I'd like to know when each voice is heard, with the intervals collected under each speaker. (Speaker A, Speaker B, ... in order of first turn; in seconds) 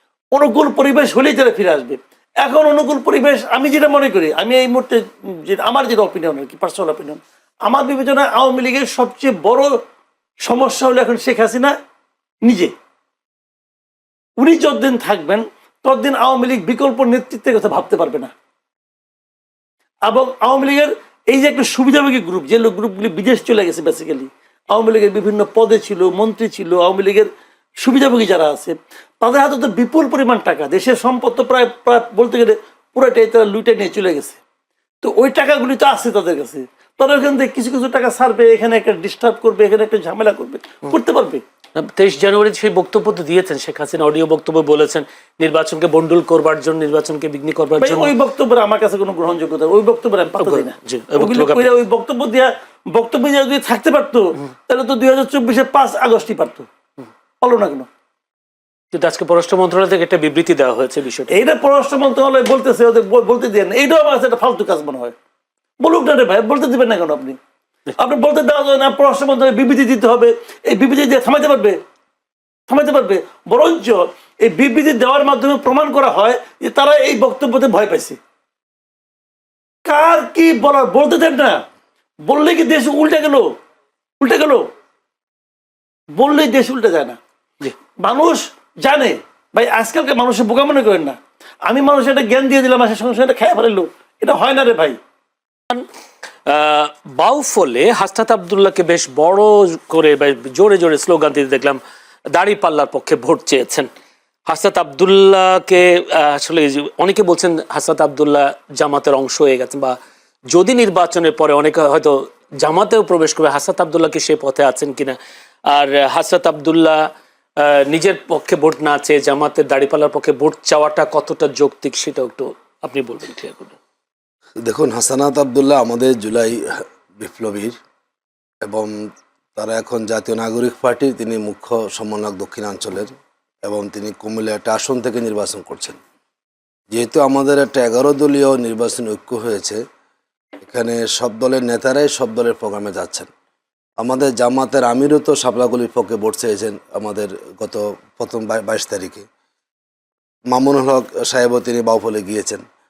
Speaker A: 0.3-9.7, 10.4-11.7, 12.5-12.7, 14.4-18.3, 20.1-27.3, 27.8-34.4, 35.0-41.4, 47.8-56.7, 57.4-57.9, 61.3-65.2, 65.8-67.4, 68.0-71.8, 72.7-78.2, 79.9-81.6, 82.3-83.5, 84.2-84.6, 86.2-87.2, 88.0-95.0
Speaker B: 41.8-48.1, 50.4-51.7, 58.9-61.4, 96.5-101.8, 102.3-103.9, 104.5-110.0, 110.5-115.2, 115.7-117.1, 117.6-123.8
Speaker C: 124.7-127.8, 128.6-129.0, 129.6-136.0, 136.9-139.8, 140.6-143.3, 144.0-149.2, 150.5-152.6